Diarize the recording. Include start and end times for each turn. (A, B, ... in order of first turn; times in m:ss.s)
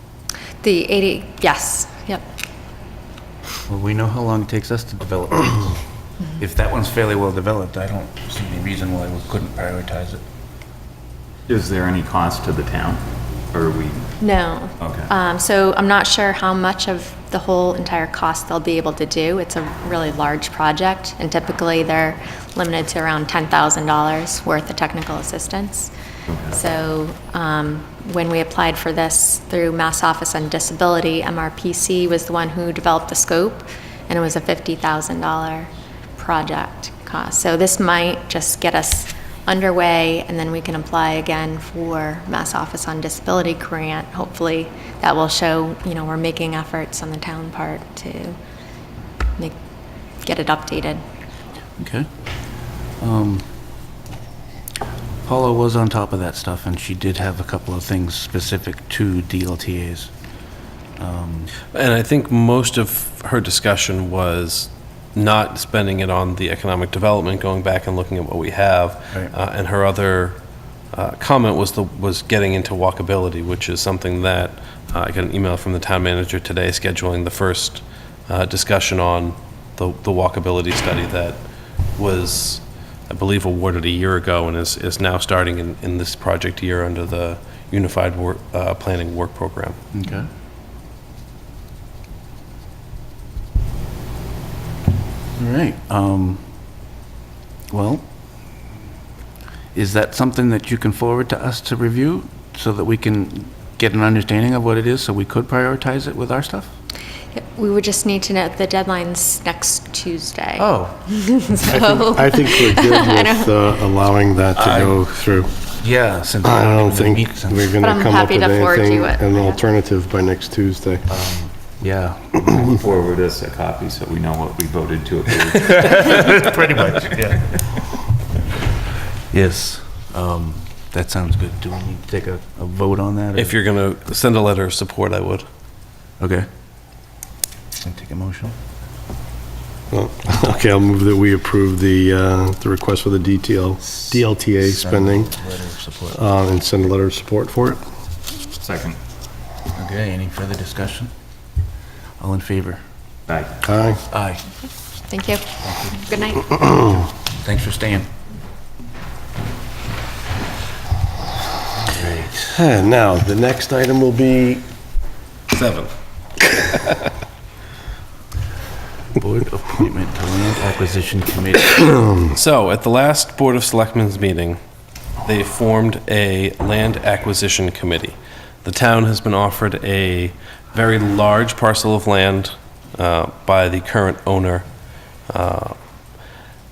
0:00.6-0:02.2 A
0:03.7-0:05.8 B
0:06.4-0:10.2 B
0:11.5-0:14.1 C
0:14.2-0:25.9 A
0:14.8-0:15.1 C
0:26.3-0:26.6 C
0:26.5-0:48.4 A
0:50.2-0:51.0 A
0:51.8-0:52.1 B
0:52.9-0:53.6 B
0:55.2-1:00.1 B
1:01.0-1:01.5 B
1:01.7-1:10.4 D
1:10.9-1:21.4 D
1:22.0-1:29.8 D
1:29.9-1:30.3 B
1:35.4-1:36.6 B
1:37.7-1:38.0 B
1:39.7-1:46.7 B
1:47.3-1:53.6 A
1:50.6-1:51.1 B
1:51.6-1:55.5 E
1:54.6-1:54.9 B
1:55.8-1:57.8 B
1:56.4-2:01.0 E
1:57.8-1:59.6 A
2:01.1-2:02.9 B
2:02.5-2:06.8 C
2:05.7-2:07.7 B
2:09.3-2:13.6 B
2:13.3-2:15.4 D
2:16.2-2:16.5 B
2:17.8-2:18.6 B
2:19.9-2:25.3 E
2:23.9-2:26.2 B
2:26.1-2:27.8 E
2:28.6-2:29.0 C
2:29.7-2:31.1 B
2:32.2-2:32.8 B
2:33.3-2:33.6 C
2:33.6-2:34.0 E
2:34.1-2:34.5 B
2:35.1-2:35.5 A
2:35.6-2:36.2 B
2:36.0-2:36.8 A
2:37.3-2:38.1 B
2:41.8-2:42.6 B
2:42.5-2:44.6 E
2:45.5-2:45.9 D
2:49.1-2:51.9 B
2:52.3-2:54.6 D
2:55.2-3:04.6 D
3:05.3-3:05.8 D